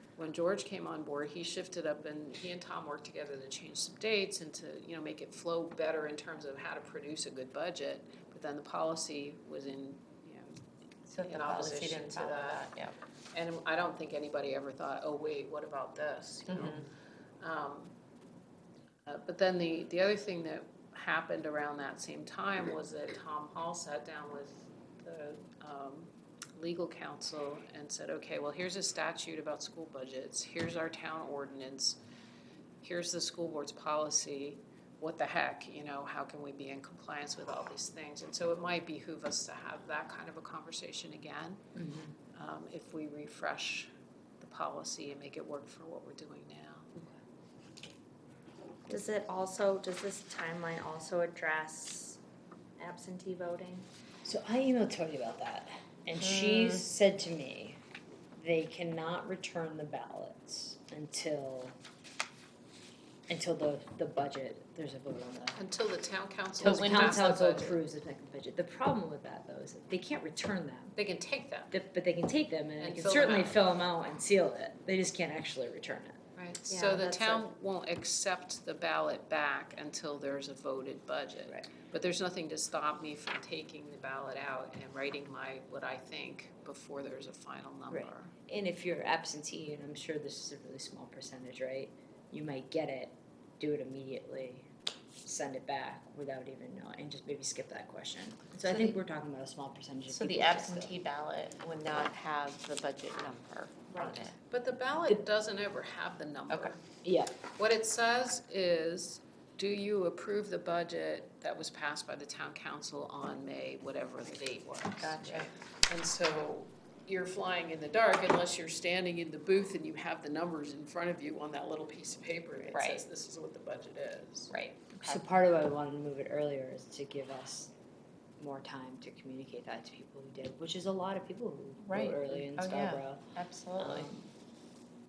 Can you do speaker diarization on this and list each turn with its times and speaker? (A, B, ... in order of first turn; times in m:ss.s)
0:00.2-0:10.6 A
0:11.1-0:12.9 B
0:11.2-0:12.6 A
0:13.3-0:16.9 A
0:16.5-0:16.8 B
0:17.4-0:17.9 A
0:19.0-0:32.0 A
0:32.8-0:41.6 A
0:41.7-0:42.1 C
0:42.3-0:46.9 A
0:48.9-0:52.2 D
0:52.8-0:53.9 D
0:54.2-0:57.8 C
0:56.1-0:56.8 B
0:58.4-1:01.8 C
1:03.3-1:05.6 C
1:05.5-1:07.8 A
1:06.6-1:11.0 C
1:06.6-1:07.4 B
1:10.9-1:11.7 A
1:11.7-1:16.2 C
1:12.8-1:13.6 A
1:16.4-1:28.3 A
1:16.7-1:17.5 D
1:27.9-1:34.7 C
1:35.2-1:40.9 C
1:38.6-1:39.0 B
1:40.1-1:44.4 B
1:44.5-1:46.8 A
1:47.0-1:47.3 C
1:47.5-2:04.5 A
1:55.0-1:55.5 B
2:02.6-2:02.9 B
2:04.5-2:05.2 B
2:05.0-2:07.7 C
2:08.4-2:14.3 C
2:11.8-2:14.1 B